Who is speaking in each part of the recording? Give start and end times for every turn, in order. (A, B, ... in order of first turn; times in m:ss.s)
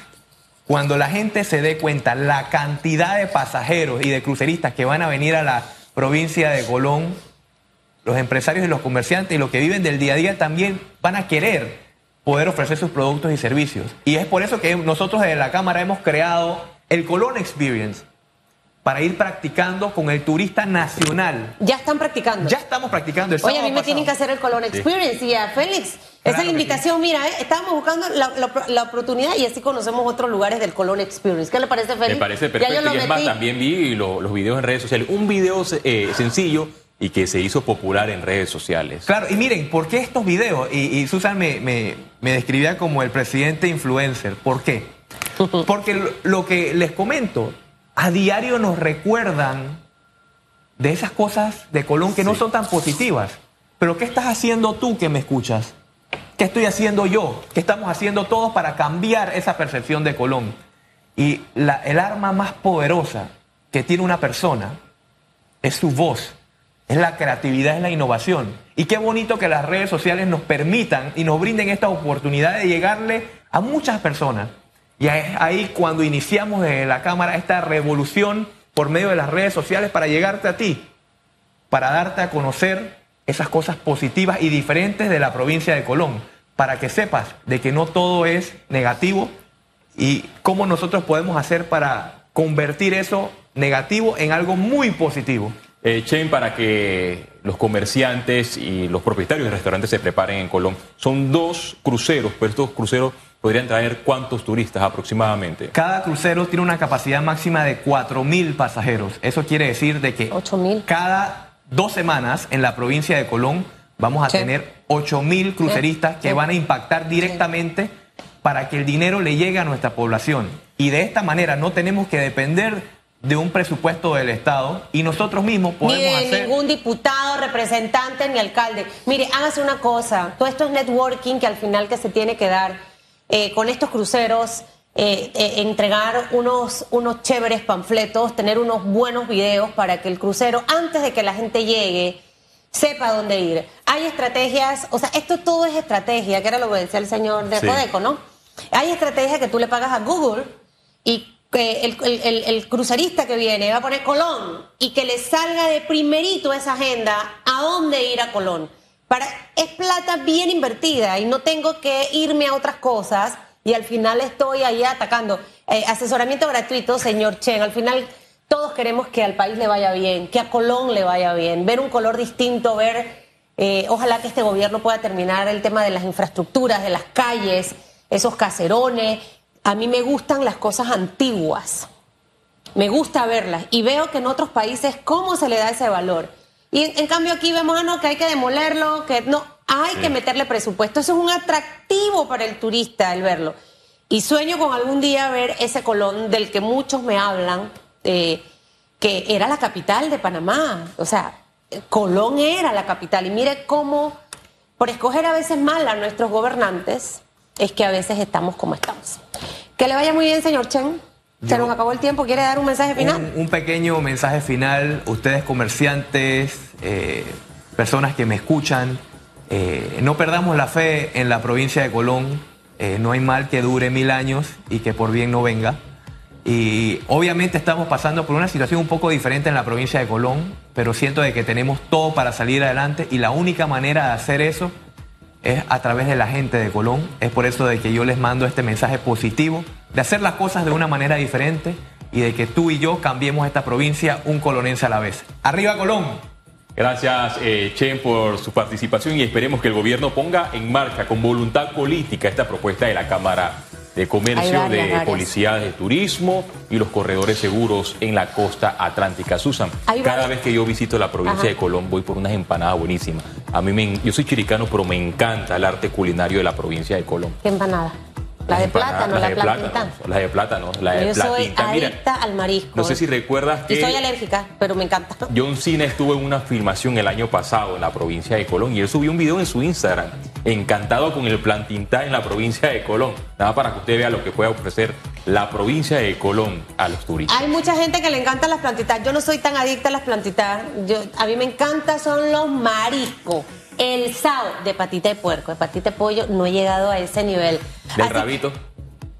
0:00.7-0:07.2 A
0:08.0-0:18.0 A
0:18.8-0:21.6 A
0:21.6-0:22.5 B
0:22.4-0:24.1 A
0:23.4-0:33.3 B
0:26.2-0:26.8 A
0:32.1-0:39.1 C
0:39.0-0:44.9 A
0:45.6-0:49.8 A
0:50.8-0:55.7 A
0:56.4-1:00.6 A
1:01.2-1:04.8 A
1:05.6-1:06.4 A
1:06.9-1:20.9 A
1:21.7-1:29.3 A
1:30.0-1:35.6 A
1:35.8-1:45.7 C
1:45.7-1:50.3 A
1:50.3-1:50.8 B
1:50.8-1:57.9 A
1:55.7-1:56.4 B
1:58.4-2:06.5 A
2:05.8-2:12.8 B
2:13.3-2:22.2 B
2:22.7-2:28.2 B
2:28.7-3:01.9 B
3:02.7-3:13.6 B
3:14.1-3:18.4 B
3:19.0-3:24.2 B
3:24.8-3:29.2 B
3:29.8-3:33.3 B
3:31.4-3:31.7 A
3:32.9-3:45.8 A
3:46.4-3:54.7 A
3:55.4-4:06.2 A
4:06.8-4:27.4 C
4:14.3-4:15.3 B
4:19.9-4:20.3 B
4:21.2-4:21.5 B
4:27.4-4:29.9 B
4:28.5-4:32.0 C
4:30.9-4:33.0 B
4:32.7-4:34.0 C
4:33.7-4:35.3 B
4:35.3-4:47.5 C
4:47.3-4:58.3 B
4:58.0-4:58.6 C